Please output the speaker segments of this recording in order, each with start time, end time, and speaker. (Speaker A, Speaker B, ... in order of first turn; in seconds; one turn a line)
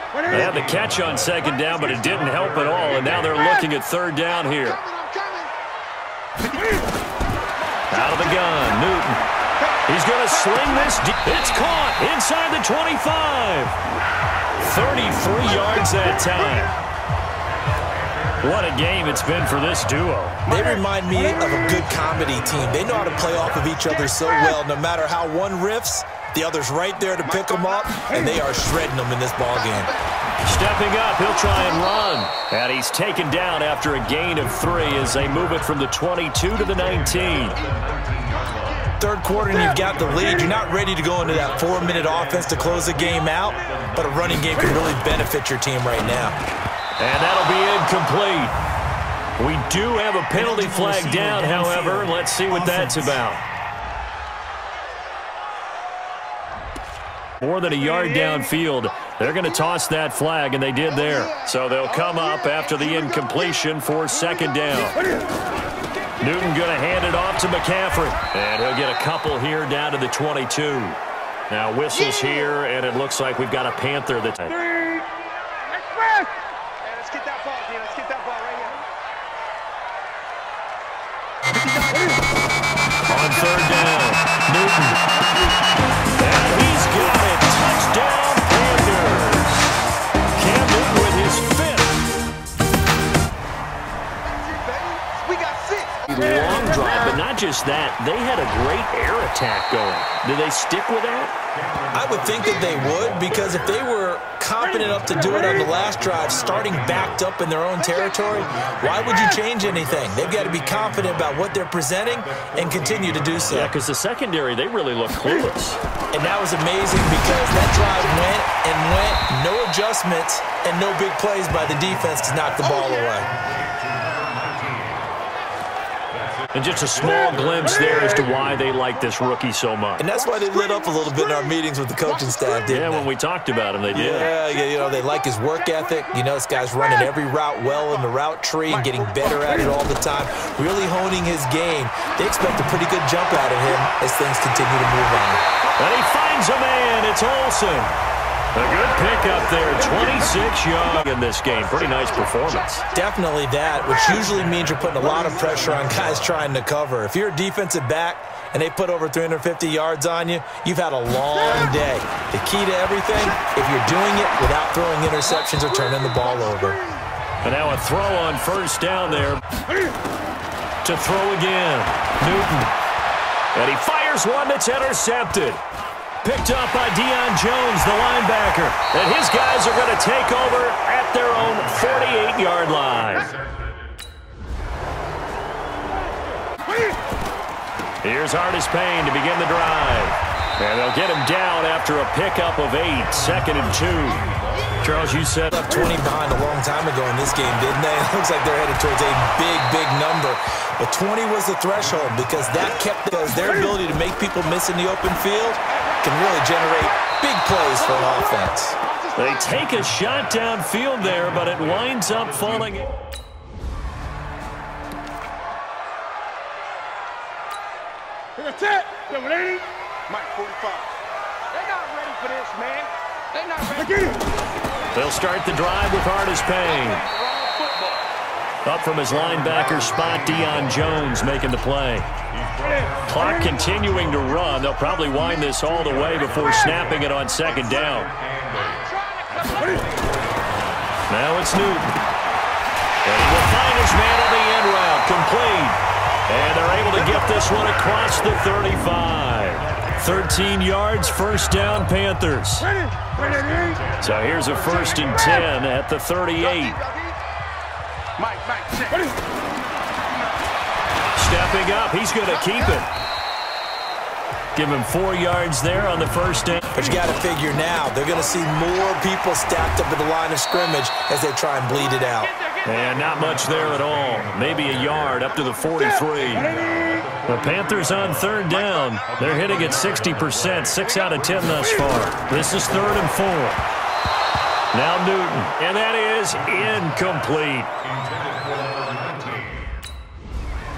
Speaker A: 0.2-4.8
Speaker B: 4.6-5.5
Speaker B: 6.4-6.9
Speaker A: 7.9-9.2
Speaker A: 9.9-13.8
Speaker A: 14.6-16.7
Speaker B: 15.9-16.7
Speaker A: 18.4-20.4
Speaker C: 20.5-29.9
Speaker B: 27.4-28.0
Speaker A: 30.4-37.6
Speaker B: 37.6-39.0
Speaker C: 39.0-46.4
Speaker A: 47.0-48.5
Speaker A: 49.4-53.4
Speaker C: 50.3-53.1
Speaker A: 57.4-65.0
Speaker A: 66.2-71.0
Speaker A: 71.5-74.7
Speaker B: 76.8-78.8
Speaker B: 81.5-82.2
Speaker A: 83.0-85.0
Speaker A: 86.2-89.7
Speaker A: 90.3-91.9
Speaker B: 94.4-96.1
Speaker A: 96.1-101.3
Speaker C: 101.9-113.7
Speaker A: 113.5-115.8
Speaker C: 116.1-123.3
Speaker A: 126.5-130.1
Speaker C: 130.0-133.1
Speaker A: 132.7-134.3
Speaker C: 133.9-145.4
Speaker A: 145.8-147.9
Speaker A: 148.5-152.9
Speaker B: 151.9-152.9
Speaker C: 152.9-166.8
Speaker B: 155.2-155.6
Speaker B: 165.4-166.8
Speaker A: 167.4-169.4
Speaker A: 170.8-172.7
Speaker A: 173.5-175.6
Speaker A: 176.2-183.3
Speaker A: 188.0-194.3
Speaker A: 194.8-195.6
Speaker C: 195.5-208.8
Speaker B: 209.0-209.2
Speaker A: 209.2-212.9
Speaker B: 220.1-220.9
Speaker B: 221.5-224.3
Speaker A: 224.9-227.0
Speaker B: 226.8-228.1
Speaker A: 228.6-232.1
Speaker A: 233.0-238.1
Speaker B: 238.7-240.0
Speaker A: 241.1-242.0
Speaker A: 243.0-252.7
Speaker B: 253.2-253.8
Speaker A: 254.0-256.8
Speaker B: 256.4-257.1
Speaker B: 258.2-259.1
Speaker A: 261.1-262.9
Speaker A: 264.5-266.6
Speaker C: 266.7-272.3
Speaker A: 272.6-276.6
Speaker A: 277.1-283.6
Speaker A: 284.7-287.7